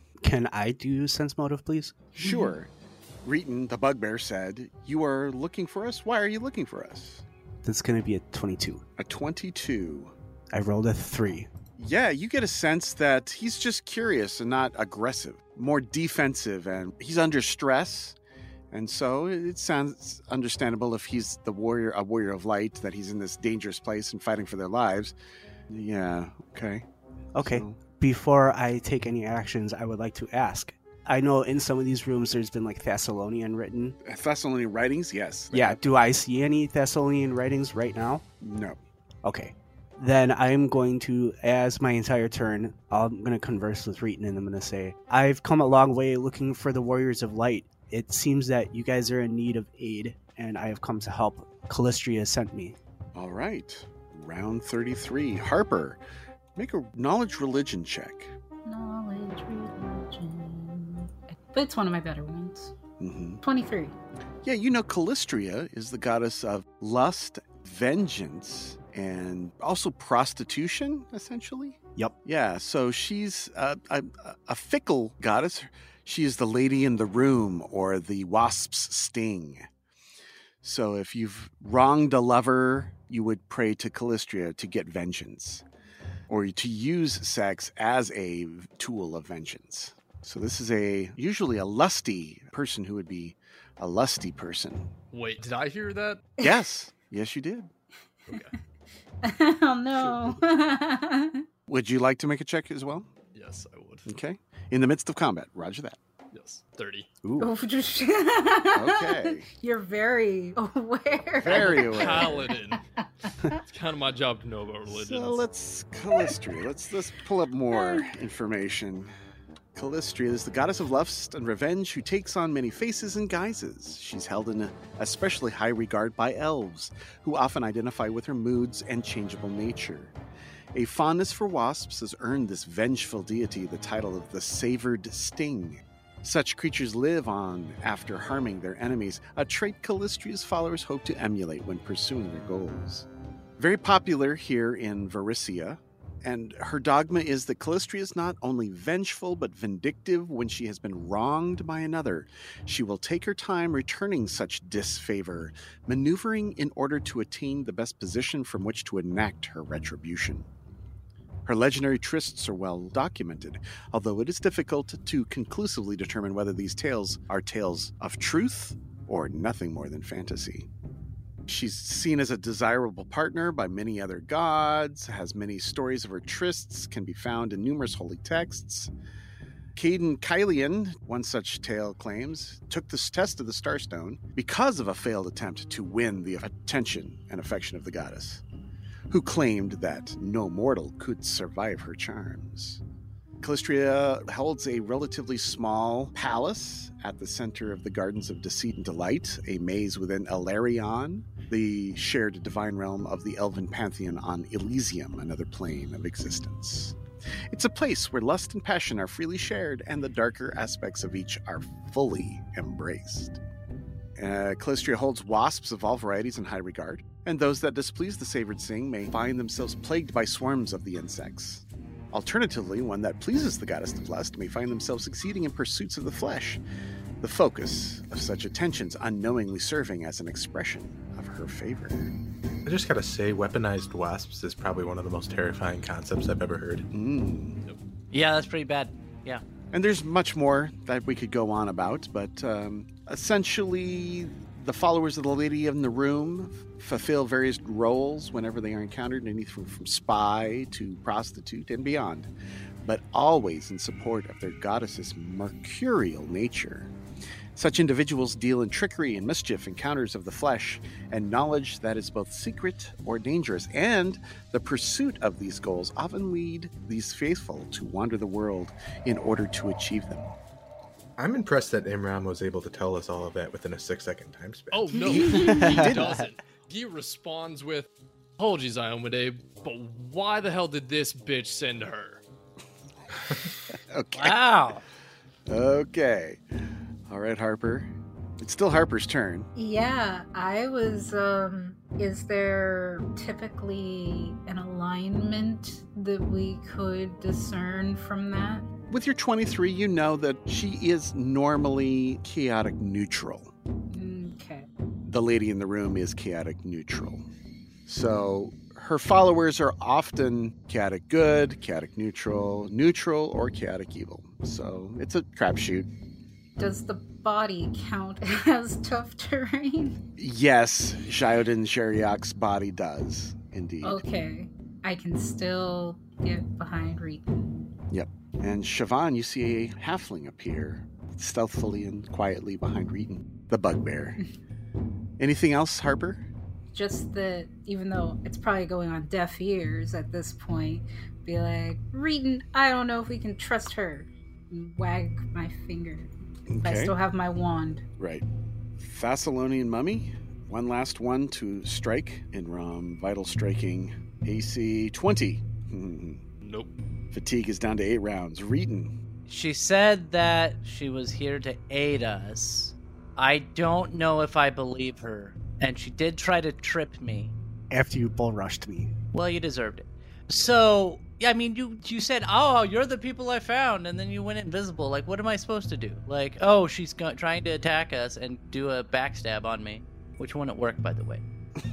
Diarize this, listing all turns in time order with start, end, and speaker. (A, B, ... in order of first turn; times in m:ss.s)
0:00.2-0:02.1 A
0:02.2-0:02.7 B
0:02.2-0:02.5 C
0:03.2-0:07.2 B
0:07.6-0:08.8 A
0:09.0-0:10.1 B
0:10.5-0:11.5 A
0:11.8-0:18.2 B
0:18.7-0:25.1 B
0:25.7-0:26.8 B
0:27.3-0:34.0 A
0:27.4-0:27.8 B
0:34.0-0:35.8 B
0:35.5-0:38.2 A
0:38.4-0:38.8 B
0:39.2-0:52.8 A
0:53.1-0:56.0 B
0:56.6-0:58.3 B
0:58.6-1:02.7 C
1:03.0-1:03.4 B
1:03.4-1:04.0 C
1:04.4-1:19.7 B
1:20.6-1:25.6 B
1:26.3-1:34.9 B
1:35.1-1:36.2 D
1:36.4-1:37.7 B
1:38.3-1:38.5 D
1:39.2-1:41.4 C
1:41.7-1:43.1 B
1:43.3-1:44.1 D
1:44.0-1:46.0 B
1:46.3-1:47.1 D
1:47.4-1:53.6 C
1:48.7-1:49.5 B
1:51.4-1:52.4 B
1:51.4-1:52.8 D
1:53.6-1:55.4 D
1:54.9-1:59.1 B
1:57.7-1:58.0 C
1:59.8-2:10.1 B
2:10.7-2:23.1 B
2:23.6-2:40.4 B
2:41.4-2:50.7 B
2:51.5-2:58.9 B
2:59.7-3:08.4 B
3:09.1-3:12.8 B
3:13.4-3:27.0 B
3:27.5-3:33.4 B
3:34.2-3:46.6 B
3:47.2-3:52.1 B
3:52.6-3:56.8 E
3:56.9-3:57.6 B
3:58.1-3:59.4 F
3:59.7-4:12.3 B
4:12.8-4:16.9 B
4:17.5-4:30.3 B
4:31.2-4:35.0 E
4:34.7-4:37.9 D
4:35.0-4:36.3 B
4:35.2-4:35.6 C
4:35.4-4:36.0 A
4:38.4-4:42.2 D
4:43.9-4:44.4 B
4:44.1-4:44.8 F
4:45.5-4:46.4 B
4:47.1-4:49.5 B
4:49.5-4:58.7 C
4:58.9-5:03.5 B
5:03.9-5:04.7 C
5:05.0-5:07.2 B
5:07.8-5:15.9 B
5:16.6-5:20.0 C
5:20.2-5:24.0 B
5:23.8-5:27.5 C
5:27.9-5:34.2 B
5:35.2-5:36.2 B
5:36.7-5:47.8 C
5:46.5-5:46.9 B
5:48.0-5:48.2 B
5:48.8-5:56.2 B
5:56.4-5:56.7 D
5:57.1-5:58.9 B
5:59.3-6:07.3 F
6:07.7-6:08.9 A
6:09.1-6:21.2 F